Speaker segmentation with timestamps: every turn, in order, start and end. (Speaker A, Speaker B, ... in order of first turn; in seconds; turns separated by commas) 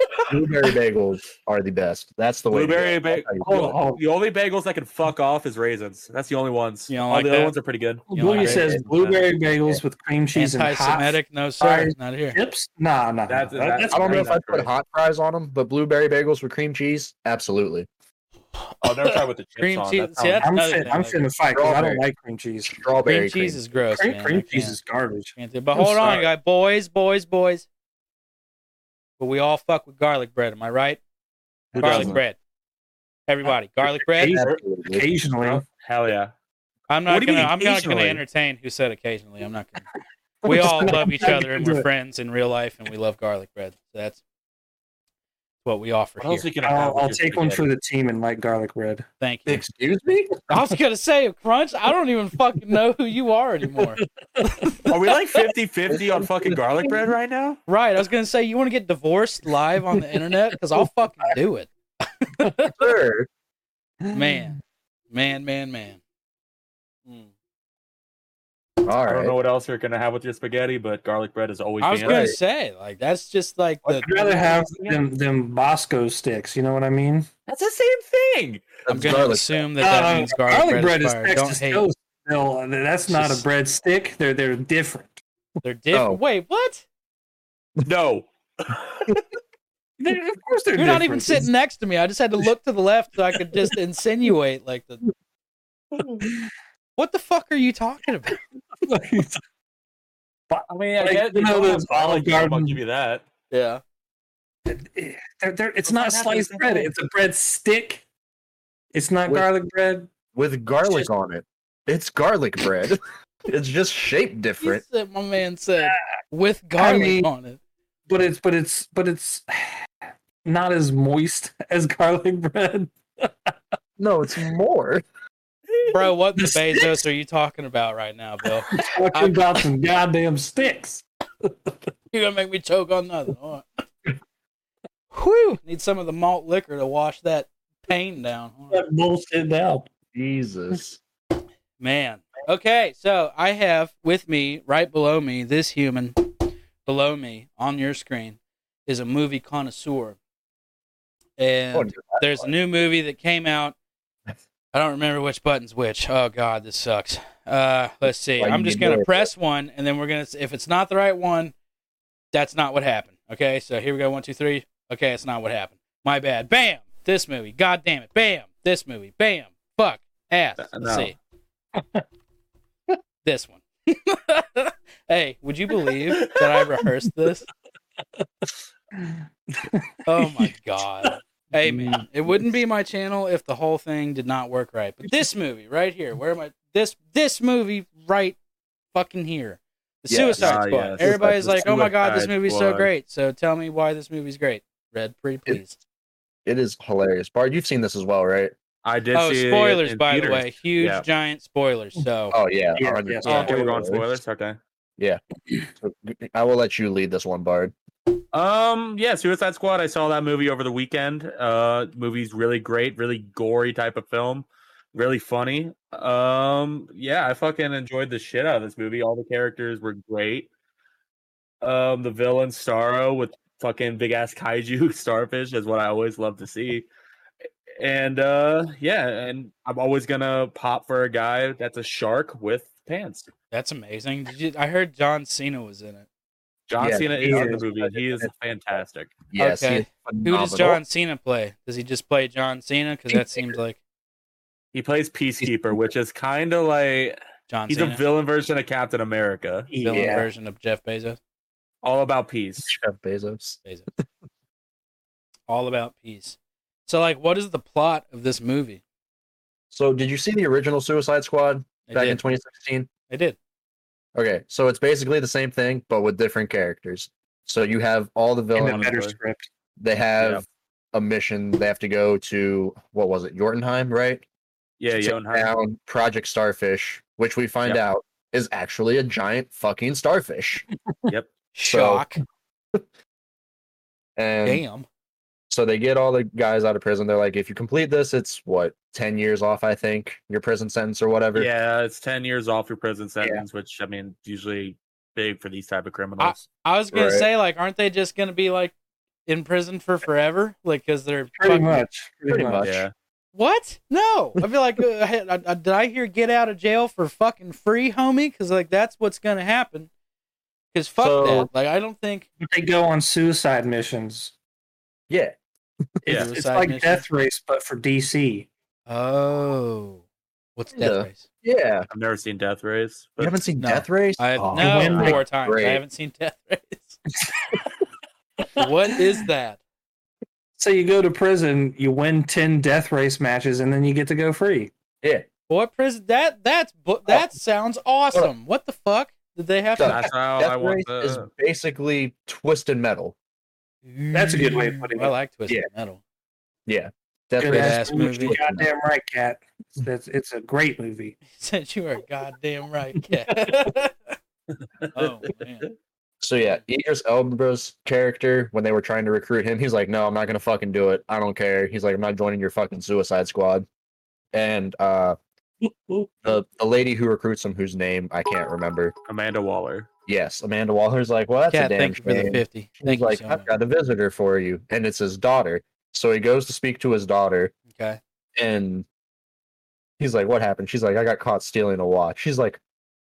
Speaker A: 0.3-3.7, Speaker B: 2.5-9.0, Speaker C: 3.4-4.0, Speaker D: 6.9-7.5, Speaker D: 8.1-9.1, Speaker C: 8.1-14.3, Speaker D: 10.3-12.4, Speaker B: 13.3-14.7, Speaker A: 13.9-17.9, Speaker B: 18.8-20.5, Speaker D: 19.6-21.2, Speaker C: 20.4-22.8, Speaker A: 21.5-22.0, Speaker A: 22.7-23.6, Speaker D: 23.1-24.8, Speaker C: 23.9-26.2, Speaker D: 25.4-27.7, Speaker D: 29.2-31.0, Speaker B: 31.7-32.2, Speaker C: 31.8-32.1, Speaker A: 31.8-32.2, Speaker D: 31.8-32.4, Speaker D: 33.3-34.4, Speaker C: 34.1-35.6, Speaker A: 34.2-35.1, Speaker B: 35.4-36.3, Speaker D: 36.9-39.8, Speaker B: 37.1-38.2, Speaker C: 40.4-41.9, Speaker D: 40.5-44.2, Speaker D: 45.6-46.5, Speaker B: 46.2-47.6, Speaker C: 46.6-49.0, Speaker D: 49.2-49.6, Speaker A: 49.5-50.4, Speaker D: 50.5-54.0, Speaker C: 54.4-54.9, Speaker B: 54.9-57.6, Speaker D: 57.7-62.8, Speaker A: 62.7-63.3, Speaker C: 64.0-64.6, Speaker D: 64.1-64.6, Speaker D: 65.1-66.0, Speaker A: 68.8-69.3, Speaker B: 69.0-72.3, Speaker D: 71.8-74.1, Speaker A: 72.0-72.4, Speaker C: 73.9-77.3, Speaker B: 74.0-75.0, Speaker B: 77.5-78.8, Speaker A: 78.9-79.7, Speaker D: 78.9-81.9, Speaker C: 79.8-85.2, Speaker D: 83.1-83.4, Speaker D: 85.6-86.8, Speaker A: 85.9-86.2, Speaker B: 87.8-89.1, Speaker C: 90.0-91.5, Speaker D: 90.8-95.0, Speaker B: 95.9-96.3, Speaker D: 97.0-98.4, Speaker C: 98.8-99.4, Speaker C: 100.5-102.8, Speaker B: 100.7-103.2, Speaker D: 103.5-103.8, Speaker C: 104.7-108.0, Speaker B: 105.9-106.9, Speaker C: 108.9-110.1, Speaker A: 110.3-114.8, Speaker D: 114.6-117.6, Speaker C: 116.8-117.3, Speaker C: 118.1-119.9, Speaker C: 120.4-123.5, Speaker A: 124.0-125.0, Speaker D: 125.9-129.4, Speaker C: 126.4-127.0, Speaker C: 128.7-131.7, Speaker D: 132.1-133.7, Speaker D: 135.1-138.8, Speaker C: 138.7-139.9, Speaker A: 140.1-141.0, Speaker D: 141.8-146.2, Speaker D: 146.8-150.2, Speaker D: 151.4-153.8, Speaker A: 151.7-152.5, Speaker D: 154.7-161.5, Speaker A: 158.4-159.3, Speaker D: 162.3-171.2, Speaker B: 170.6-171.1, Speaker C: 171.8-172.0, Speaker D: 173.2-177.5, Speaker C: 179.0-180.5, Speaker D: 180.1-188.4, Speaker C: 181.6-182.0, Speaker D: 188.9-195.8, Speaker A: 190.1-191.8, Speaker B: 190.4-192.9, Speaker A: 196.5-198.5, Speaker B: 198.8-201.1, Speaker D: 199.2-202.4, Speaker A: 202.3-204.2, Speaker C: 202.8-203.9, Speaker B: 203.2-204.6, Speaker A: 205.8-207.7, Speaker B: 208.3-220.5, Speaker B: 221.6-226.9, Speaker B: 227.8-233.3, Speaker D: 233.5-236.1, Speaker B: 236.7-239.1, Speaker A: 236.8-238.3, Speaker C: 237.2-237.6, Speaker A: 239.3-240.8, Speaker D: 239.4-243.8, Speaker B: 244.7-247.2, Speaker D: 247.5-248.0, Speaker B: 247.7-249.7, Speaker C: 249.7-250.3, Speaker D: 249.8-251.2, Speaker A: 249.9-250.3, Speaker B: 251.8-252.7, Speaker A: 252.6-253.6, Speaker D: 255.5-256.4, Speaker D: 256.9-258.8, Speaker A: 259.7-262.9, Speaker D: 261.9-262.2, Speaker D: 263.1-263.4, Speaker A: 264.1-268.9, Speaker C: 268.6-269.5, Speaker B: 268.7-269.2, Speaker A: 269.8-274.2, Speaker B: 274.8-275.5, Speaker A: 274.9-280.6, Speaker D: 281.5-282.2, Speaker A: 281.6-282.1, Speaker A: 284.2-284.6, Speaker D: 284.4-284.9, Speaker A: 285.5-291.5, Speaker B: 291.3-296.4, Speaker A: 293.2-293.5, Speaker D: 296.2-298.7, Speaker A: 296.9-297.3, Speaker D: 299.3-301.9, Speaker C: 301.4-302.6, Speaker A: 302.3-302.9, Speaker B: 302.6-302.9, Speaker D: 303.4-309.9, Speaker D: 310.7-312.3, Speaker A: 311.0-311.5, Speaker C: 312.4-314.3, Speaker A: 315.1-315.4, Speaker C: 316.1-318.5, Speaker D: 316.1-317.1, Speaker D: 318.9-320.0, Speaker D: 320.6-321.2, Speaker A: 320.8-321.9, Speaker B: 321.9-323.4, Speaker A: 323.2-325.8, Speaker D: 323.6-327.0, Speaker C: 324.5-325.2, Speaker D: 328.6-329.6, Speaker C: 328.6-328.9, Speaker C: 330.6-334.7, Speaker D: 335.5-340.0, Speaker A: 339.8-343.1, Speaker B: 339.8-341.3, Speaker D: 343.9-346.0, Speaker C: 344.1-345.1, Speaker A: 346.7-348.7, Speaker C: 347.4-351.2, Speaker D: 347.4-348.4, Speaker D: 351.4-354.2, Speaker D: 354.9-355.7, Speaker A: 356.2-363.7, Speaker A: 364.3-365.2, Speaker C: 365.6-366.2, Speaker A: 366.2-368.9, Speaker B: 369.1-369.9, Speaker A: 370.1-377.5, Speaker D: 371.5-373.5, Speaker D: 377.7-378.0, Speaker A: 378.4-378.9, Speaker A: 380.0-382.6